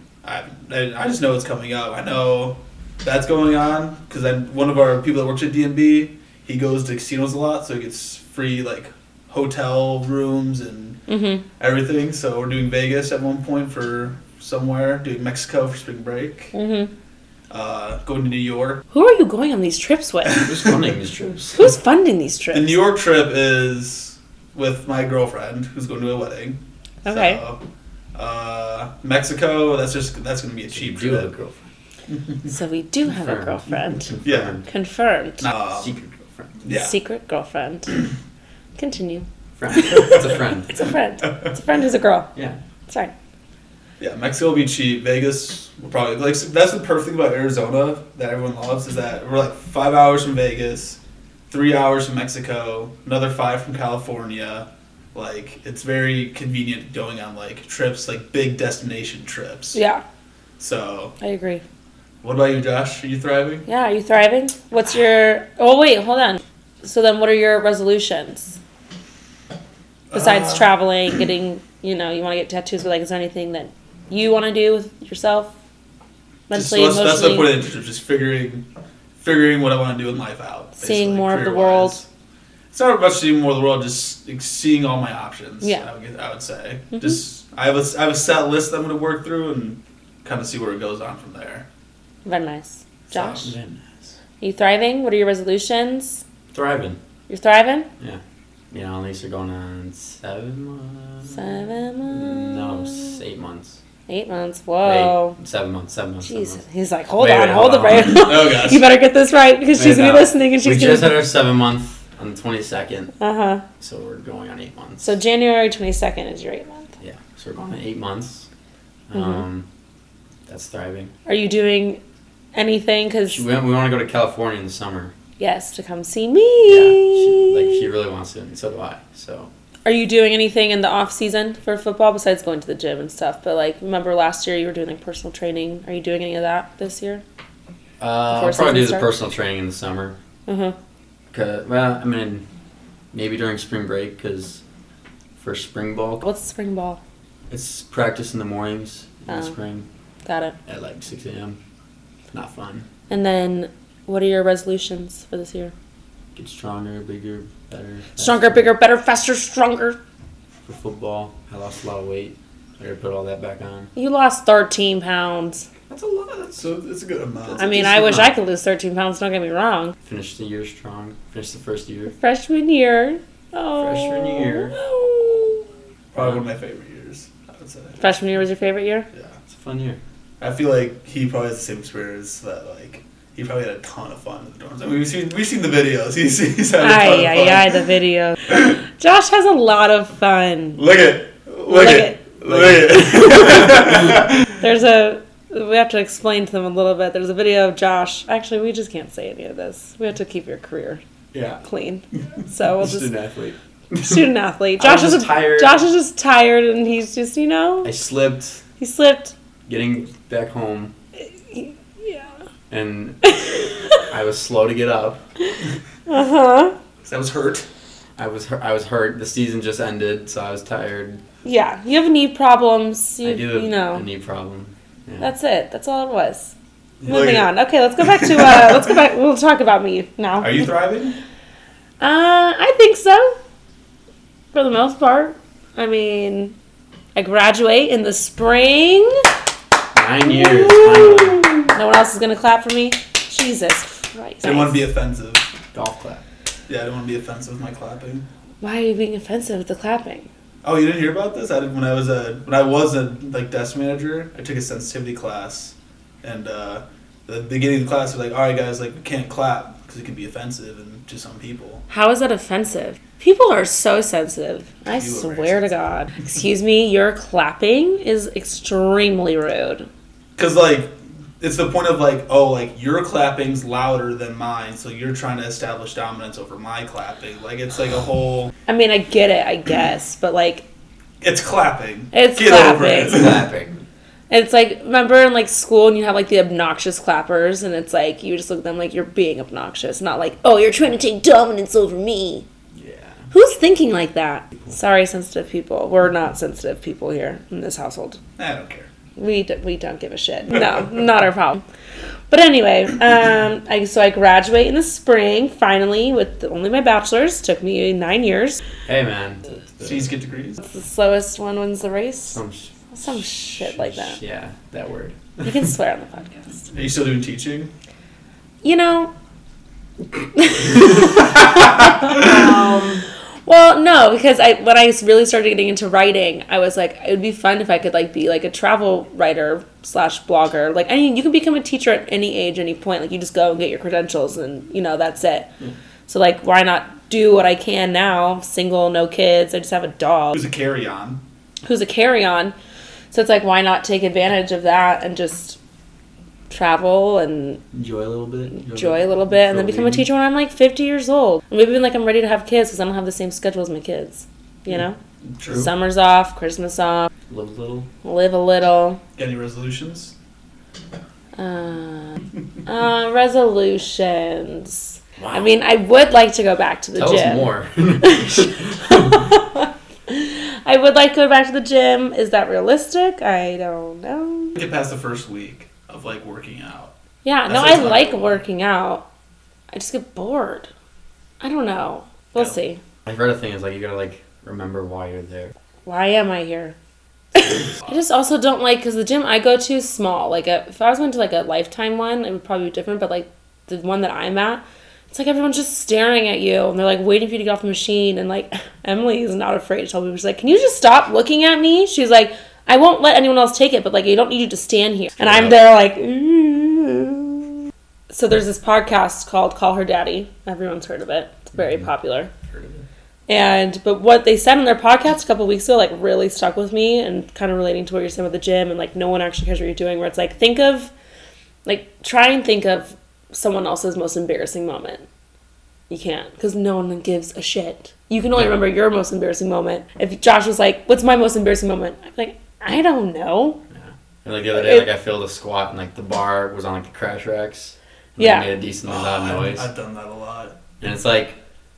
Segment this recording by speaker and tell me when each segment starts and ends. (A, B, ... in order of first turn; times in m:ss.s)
0:00.2-0:11.0 A
0:11.1-0:11.4 B
0:11.6-0:16.5 A
0:16.5-0:16.9 B
0:17.5-0:18.8 A
0:18.9-0:20.5 B
0:20.4-0:21.6 C
0:21.5-0:22.8 B
0:22.5-0:27.6 A
0:27.0-0:27.4 B
0:28.1-0:31.3 A
0:30.7-0:31.6 C
0:32.4-0:34.1 B
0:33.1-0:34.6 C
0:34.2-0:34.6 A
0:34.7-0:35.5 B
0:35.4-0:35.9 A
0:35.7-0:36.5 C
0:36.6-0:36.9 A
0:36.7-0:38.0 B
0:38.8-0:42.3 B
0:39.6-0:40.7 C
0:42.9-0:43.1 B
0:44.0-0:51.0 A
0:51.5-0:59.8 A
0:59.7-1:00.0 B
1:00.6-1:01.1 A
1:01.2-1:01.6 B
1:02.2-1:03.6 A
1:03.6-1:08.6 B
1:10.1-1:10.7 A
1:10.1-1:15.5 B
1:16.5-1:17.5 B
1:16.5-1:18.6 A
1:19.2-1:22.1 A
1:20.8-1:22.0 B
1:22.7-1:31.6 A
1:26.9-1:27.2 B
1:32.2-1:33.5 B
1:33.1-1:33.6 A
1:33.2-1:33.9 C
1:34.4-1:36.2 B
1:36.5-1:37.0 C
1:37.3-1:37.9 B
1:38.0-1:41.5 C
1:41.3-1:43.2 B
1:42.1-1:43.8 C
1:44.1-1:45.4 B
1:44.8-1:46.6 C
1:46.2-1:51.2 B
1:47.2-1:48.3 C
1:48.1-1:48.9 A
1:49.7-1:53.1 C
1:53.2-1:53.6 B
1:53.8-1:55.1 C
1:55.0-1:56.9 B
1:57.0-1:58.5 C
1:59.1-1:59.7 C
2:00.5-2:01.1 C
2:01.2-2:02.0 B
2:02.5-2:03.4 B
2:03.3-2:05.1 C
2:05.4-2:07.8 B
2:06.7-2:09.5 C
2:09.8-2:17.2 B
2:18.0-2:20.2 C
2:18.3-2:19.1 B
2:20.5-2:20.8 B
2:21.3-2:22.4 C
2:23.1-2:24.6 C
2:25.4-2:26.2 C
2:26.2-2:27.0 B
2:27.5-2:29.8 C
2:30.2-2:30.6 B
2:30.7-2:31.6 C
2:32.3-2:32.9 C
2:33.1-2:35.7 B
2:36.3-2:38.6 C
2:38.2-2:40.0 B
2:40.6-2:43.9 C
2:43.9-2:45.7 B
2:45.9-2:46.6 C
2:46.5-2:48.3 A
2:47.6-2:50.0 B
2:47.9-2:48.3 C
2:50.0-2:52.1 C
2:52.2-2:55.6 B
2:53.8-2:54.7 C
2:56.1-2:58.0 A
2:58.0-2:59.1 B
2:59.5-3:00.0 C
3:00.4-3:07.8 A
3:06.8-3:10.8 B
3:10.8-3:14.5 A
3:11.7-3:12.3 B
3:12.4-3:13.0 C
3:13.2-3:13.8 B
3:14.6-3:21.0 B
3:21.3-3:21.6 C
3:21.6-3:23.1 B
3:22.8-3:24.0 C
3:23.9-3:27.9 B
3:24.8-3:25.8 C
3:27.8-3:28.6 C
3:28.8-3:29.3 B
3:29.7-3:30.9 C
3:31.2-3:32.4 B
3:32.7-3:33.3 C
3:33.2-3:34.0 B
3:34.1-3:35.2 C
3:36.1-3:36.7 B
3:37.0-3:37.6 A
3:38.2-3:41.2 C
3:41.4-3:44.0 B
3:43.2-3:45.3 C
3:45.2-3:46.5 B
3:47.0-3:48.8 A
3:47.1-3:50.7 B
3:50.4-3:51.2 A
3:52.0-3:53.4 B
3:54.5-3:56.6 B
3:57.1-3:59.2 B
3:59.9-4:01.7 C
4:00.3-4:04.8 B
4:04.4-4:05.4 A
4:05.7-4:06.2 C
4:06.7-4:08.2 A
4:08.6-4:10.3 B
4:10.6-4:21.8 A
4:21.9-4:29.9 B
4:25.0-4:25.7 A
4:30.4-4:38.5 A
4:38.7-4:40.6 B
4:41.2-4:43.4 A
4:42.1-4:43.3 B
4:43.1-4:43.7 C
4:44.3-4:52.4 B
4:52.8-4:53.2 C
4:53.3-4:58.2 B
4:58.4-4:58.9 A
4:59.2-5:01.6 B
5:02.3-5:08.6 B
5:08.8-5:10.1 C
5:09.8-5:10.6 A
5:10.6-5:12.4 B
5:12.3-5:15.5 C
5:12.9-5:14.2 B
5:15.4-5:16.7 B
5:16.7-5:17.7 A
5:18.6-5:19.1 B
5:20.4-5:35.5 B
5:22.0-5:22.3 A
5:22.3-5:22.7 C
5:36.1-5:40.4 B
5:40.3-5:41.2 A
5:41.6-5:42.5 B
5:43.1-5:45.6 B
5:46.5-5:47.6 B
5:47.7-5:50.1 C
5:48.7-5:57.1 B
5:55.4-5:55.7 C
5:57.3-5:57.9 C
5:58.0-5:59.0 B
5:59.2-6:00.1 A
6:01.4-6:14.6 B
6:05.2-6:05.5 C
6:07.0-6:09.2 C
6:14.6-6:16.9 A
6:17.2-6:19.0 B
6:17.5-6:18.4 A
6:19.7-6:20.7 B
6:21.4-6:22.8 B
6:23.0-6:25.5 C
6:25.8-6:26.7 B
6:27.4-6:47.5 B
6:45.2-6:45.6 C
6:48.1-6:52.3 B
6:51.6-6:51.8 C
6:52.5-6:52.8 C
6:53.3-7:00.9 B
7:01.6-7:05.0 B
7:05.9-7:13.6 B
7:13.7-7:19.7 C
7:14.5-7:14.9 B
7:18.2-7:18.5 B
7:18.8-7:20.8 A
7:20.8-7:21.4 C